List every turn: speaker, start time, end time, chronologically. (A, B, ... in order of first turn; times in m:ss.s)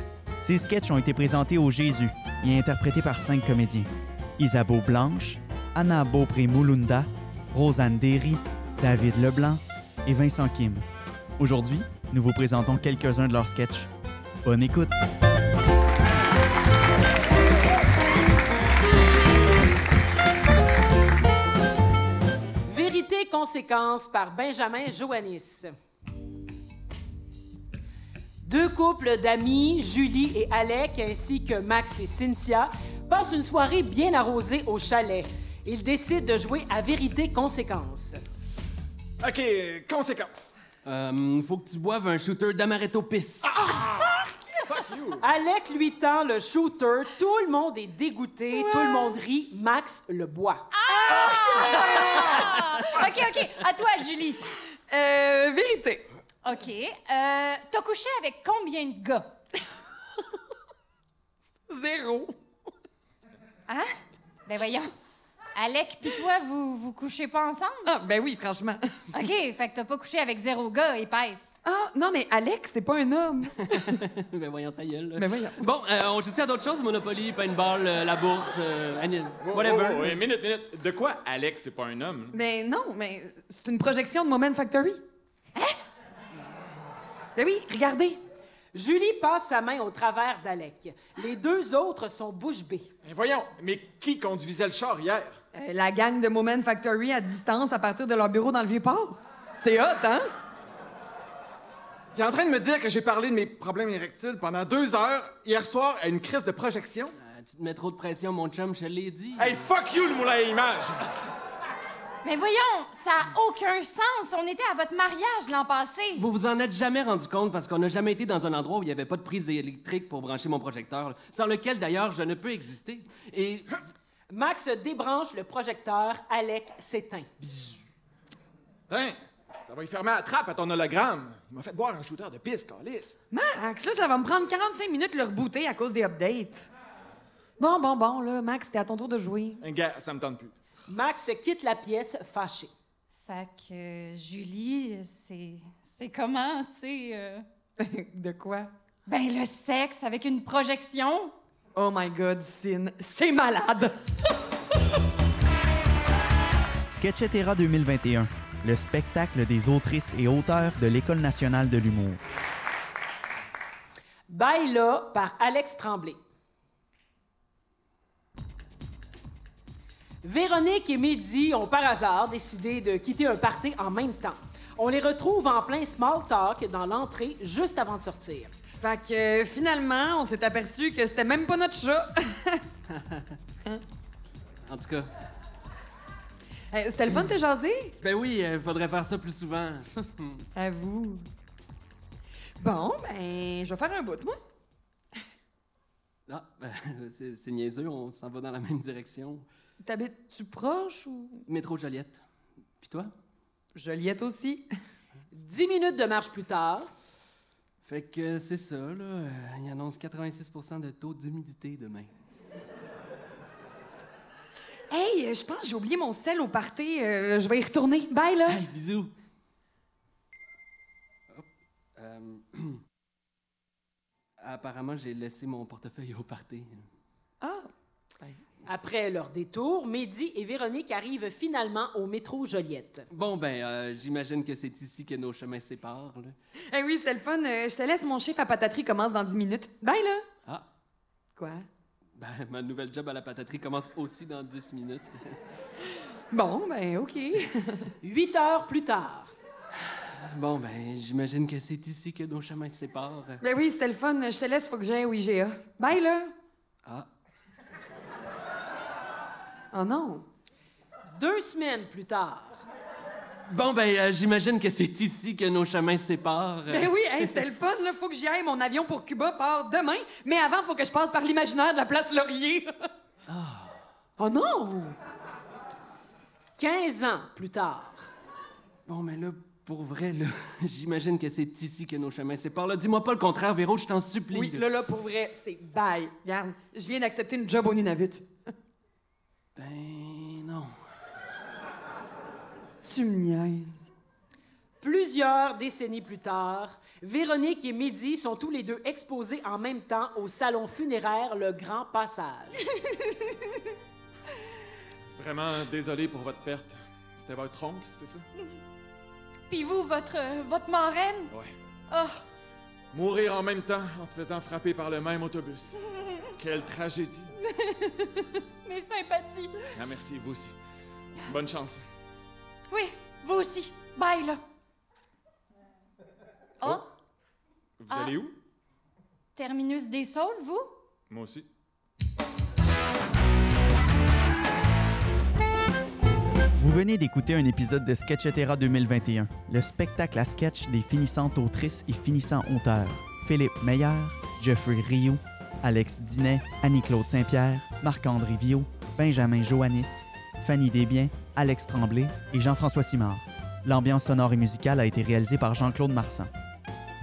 0:00.4-0:10.8 A
0:11.4-0:13.9 A
0:14.4-0:14.9 A
0:22.7-0:25.7 B
0:28.4-0:38.2 B
0:39.2-0:40.5 C
0:40.8-0:43.7 D
0:43.6-0:44.1 C
0:44.6-0:45.2 C
0:45.2-0:50.7 B
0:48.6-0:49.1 E
0:50.7-0:54.5 F
0:51.0-0:53.0 E
0:54.9-0:56.0 E
0:56.4-0:59.3 F
1:01.7-1:02.3 E
1:04.5-1:04.9 F
1:05.6-1:07.9 F
1:07.8-1:09.1 E
1:09.2-1:11.5 F
1:11.6-1:14.0 E
1:13.5-1:20.2 D
1:15.2-1:15.7 E
1:19.4-1:22.3 C
1:22.3-1:25.0 E
1:27.4-1:28.2 E
1:28.7-1:32.9 B
1:33.0-1:35.4 C
1:35.5-1:40.2 E
1:42.1-1:47.1 C
1:47.2-1:49.7 D
1:49.4-1:51.0 C
1:52.2-1:56.2 F
1:56.2-2:03.7 D
2:04.3-2:07.3 B
2:08.9-2:13.2 C
2:13.3-2:16.7 E
2:17.6-2:19.6 E
2:19.6-2:20.6 C
2:20.9-2:22.7 B
2:23.3-2:27.5 F
2:27.8-2:28.7 E
2:29.1-2:31.3 F
2:31.8-2:33.9 E
2:36.9-2:42.2 A
2:44.3-2:46.2 B
2:50.2-2:58.5 B
2:58.8-3:02.6 E
3:02.9-3:03.4 D
3:04.7-3:05.1 D
3:06.7-3:08.0 E
3:08.0-3:10.5 D
3:10.6-3:11.2 E
3:12.6-3:14.4 E
3:16.3-3:19.5 D
3:19.8-3:21.4 E
3:21.5-3:22.2 D
3:22.8-3:23.1 D
3:23.8-3:24.6 E
3:25.3-3:26.9 B
3:27.8-3:32.1 D
3:34.9-3:38.6 E
3:38.5-3:39.1 D
3:42.0-3:42.8 D
3:44.4-3:46.8 D
3:47.4-3:47.7 E
3:48.7-3:53.1 B
3:53.1-3:56.4 D
3:56.7-4:00.2 E
4:01.4-4:01.6 E
4:02.2-4:05.4 D
4:06.3-4:07.9 E
4:08.0-4:09.3 B
4:09.9-4:13.4 D
4:13.4-4:16.3 E
4:19.7-4:20.2 E
4:21.2-4:22.6 B
4:23.5-4:27.4 D
4:26.7-4:32.7 E
4:33.3-4:33.8 D
4:34.2-4:35.0 E
4:36.6-4:38.1 B
4:38.9-4:44.7 D
4:44.3-4:48.3 E
4:49.6-4:50.7 D
4:52.8-4:53.9 E
4:54.8-5:02.6 B
5:05.2-5:08.2 C
5:09.5-5:11.3 F
5:11.9-5:12.2 F
5:12.9-5:15.8 C
5:16.4-5:17.3 C
5:17.6-5:19.7 F
5:19.7-5:20.6 C
5:21.2-5:21.8 C
5:22.7-5:24.4 F
5:27.8-5:28.4 C
5:27.9-5:28.2 F
5:29.4-5:30.7 F
5:31.1-5:31.5 C
5:36.6-5:56.3 A